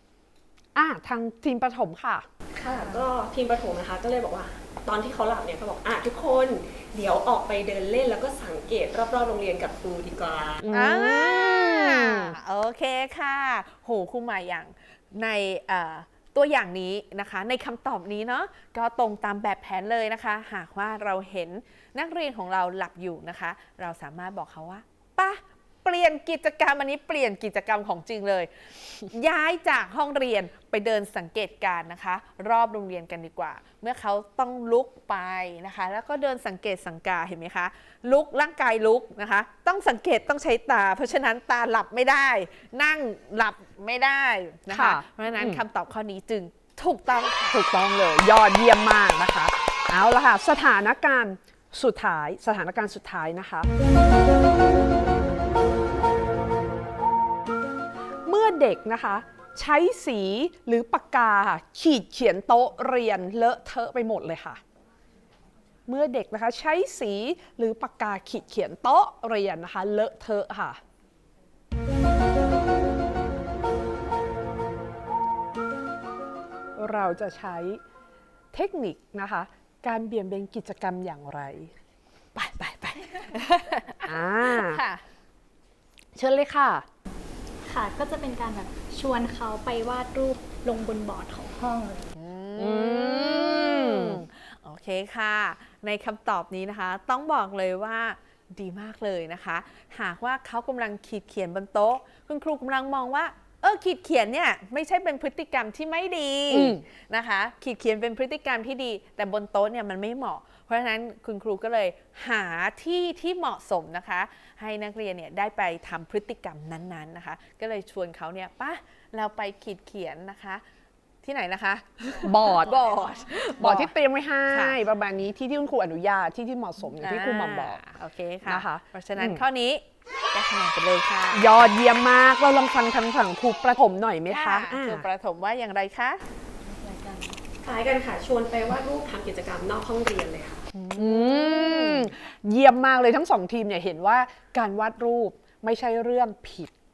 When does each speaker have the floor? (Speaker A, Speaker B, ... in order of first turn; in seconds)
Speaker A: 0.7-2.2, 10.6-12.3, 44.7-45.6, 47.5-53.7, 58.2-64.6, 65.9-70.8, 76.8-77.8, 78.5-81.7, 84.0-84.8, 86.1-86.8, 92.6-94.2, 106.5-106.8, 122.2-122.9, 123.6-127.8, 128.4-129.4, 131.3-135.1, 140.9-146.7
Speaker B: 2.5-10.7, 137.6-140.7
Speaker C: 2.8-3.0, 10.7-28.5, 29.0-47.6, 82.3-85.0, 92.1-120.6, 121.2-123.9, 124.5-124.8, 127.0-131.6, 134.3-136.2, 140.7-142.1
Speaker D: 87.6-92.1